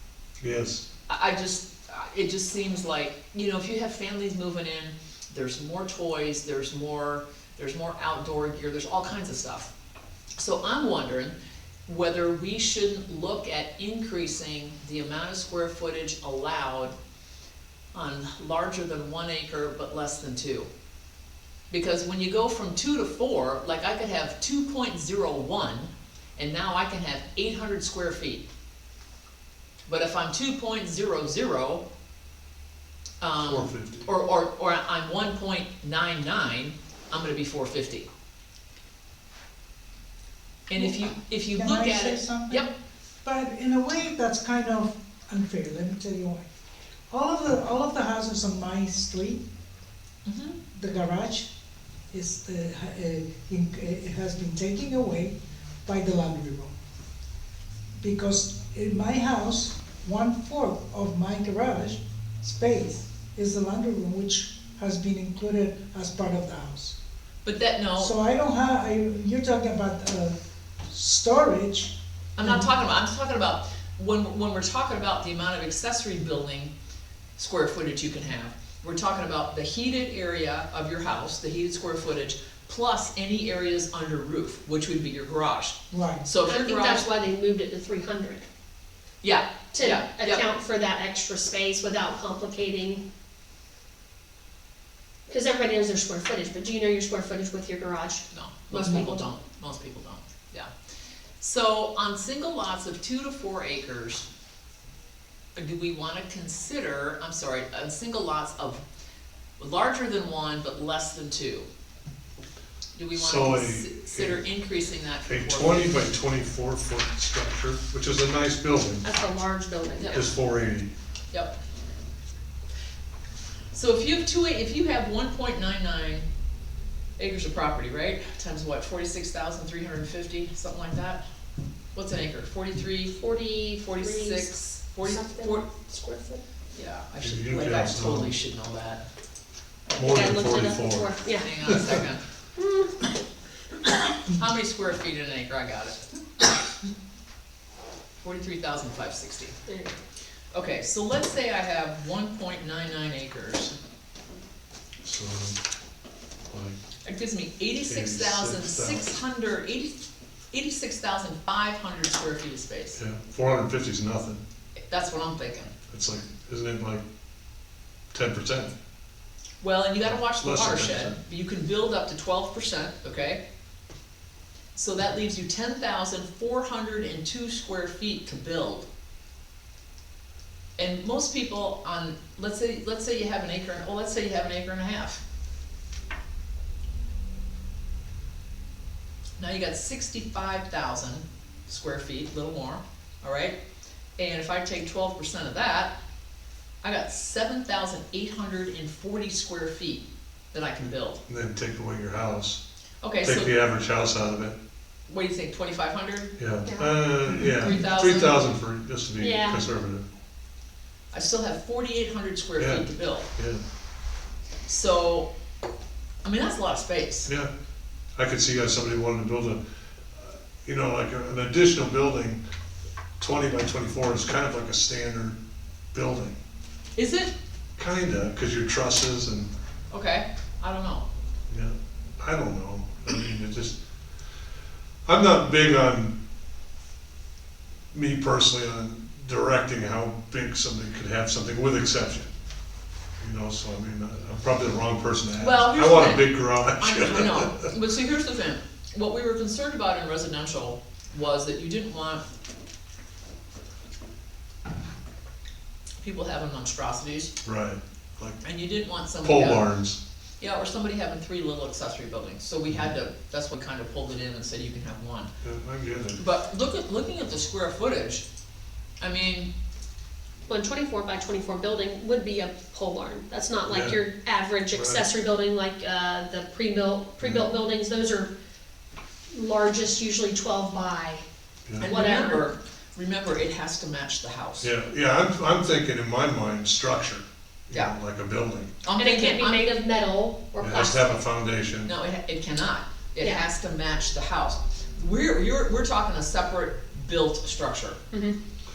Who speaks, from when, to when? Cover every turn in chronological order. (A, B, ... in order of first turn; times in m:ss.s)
0:00.4-0:00.8 A
0:01.1-0:09.7 B
0:10.4-0:11.3 B
0:11.9-0:16.9 B
0:17.9-0:20.7 B
0:21.7-0:28.4 B
0:29.9-0:31.8 B
0:33.2-0:38.1 B
0:33.4-0:34.1 A
0:40.7-0:42.7 B
0:40.7-0:42.7 C
0:43.2-0:46.4 C
0:47.1-0:49.4 C
0:50.2-0:50.6 B
0:50.7-0:51.5 C
0:52.1-0:56.7 C
0:58.0-1:07.0 C
1:07.4-1:08.1 B
1:08.0-1:12.6 C
1:12.4-1:16.7 B
1:17.4-1:27.0 B
1:25.9-1:26.2 C
1:26.4-1:28.5 D
1:29.2-1:30.4 B
1:29.7-1:33.0 D
1:35.3-1:39.2 D
1:38.3-1:40.7 B
1:41.4-1:44.2 B
1:45.5-1:48.8 B
1:49.6-1:51.7 B
1:52.9-1:56.1 B
1:53.1-1:54.4 A
1:55.2-1:59.0 A
1:59.0-2:00.3 D
2:00.1-2:00.9 A
2:03.7-2:06.3 B
2:07.2-2:11.2 B
2:11.9-2:13.2 B
2:13.1-2:16.4 D
2:13.8-2:15.6 B
2:16.7-2:19.0 B
2:17.2-2:18.3 A
2:19.9-2:21.6 D
2:20.0-2:21.1 A
2:21.2-2:22.2 B
2:22.6-2:23.0 D
2:24.3-2:26.1 B
2:28.2-2:29.6 B
2:29.7-2:30.0 D
2:30.5-2:33.8 B
2:35.0-2:35.6 A
2:36.5-2:36.8 A
2:37.0-2:43.0 B
2:37.8-2:39.1 A
2:43.0-2:44.4 A
2:44.9-2:45.7 B
2:45.9-2:47.0 A
2:48.1-2:48.7 A
2:49.6-2:53.4 B
2:50.2-2:51.2 A
2:54.7-2:58.9 B
3:00.8-3:05.2 B
3:09.4-3:13.6 B
3:14.2-3:15.9 B
3:16.8-3:21.2 B
3:21.3-3:22.6 A
3:23.0-3:23.5 B
3:23.2-3:24.6 A
3:25.1-3:26.3 B
3:26.4-3:30.0 A
3:26.6-3:27.0 D
3:27.5-3:28.4 B
3:29.2-3:29.6 D
3:31.1-3:33.3 B
3:32.6-3:33.6 A
3:34.6-3:35.3 B
3:36.2-3:37.3 B
3:38.2-3:39.6 A
3:40.1-3:42.4 A
3:43.2-3:45.4 A
3:45.9-3:46.4 A
3:47.0-3:47.3 B
3:47.8-3:49.5 A
3:49.9-3:51.0 B
3:51.5-3:53.8 A
3:55.0-3:56.1 A
3:57.9-4:02.3 A
4:03.2-4:07.7 A
4:05.4-4:12.2 B
4:16.0-4:17.3 B
4:17.4-4:18.4 A
4:18.4-4:19.6 B
4:19.2-4:20.0 A
4:20.4-4:25.3 B
4:25.4-4:26.2 A
4:26.2-4:28.2 B
4:29.0-4:29.5 B
4:30.5-4:38.3 D
4:33.7-4:34.0 A
4:34.7-4:35.0 A
4:37.2-4:37.5 A
4:39.3-4:41.2 D
4:41.8-4:42.5 D
4:41.8-4:44.7 B
4:44.6-4:48.8 A
4:48.8-4:49.7 B
4:49.0-4:51.1 D
4:50.6-4:51.9 A
4:51.8-4:58.0 B
4:53.2-4:53.4 D
4:58.1-4:58.4 D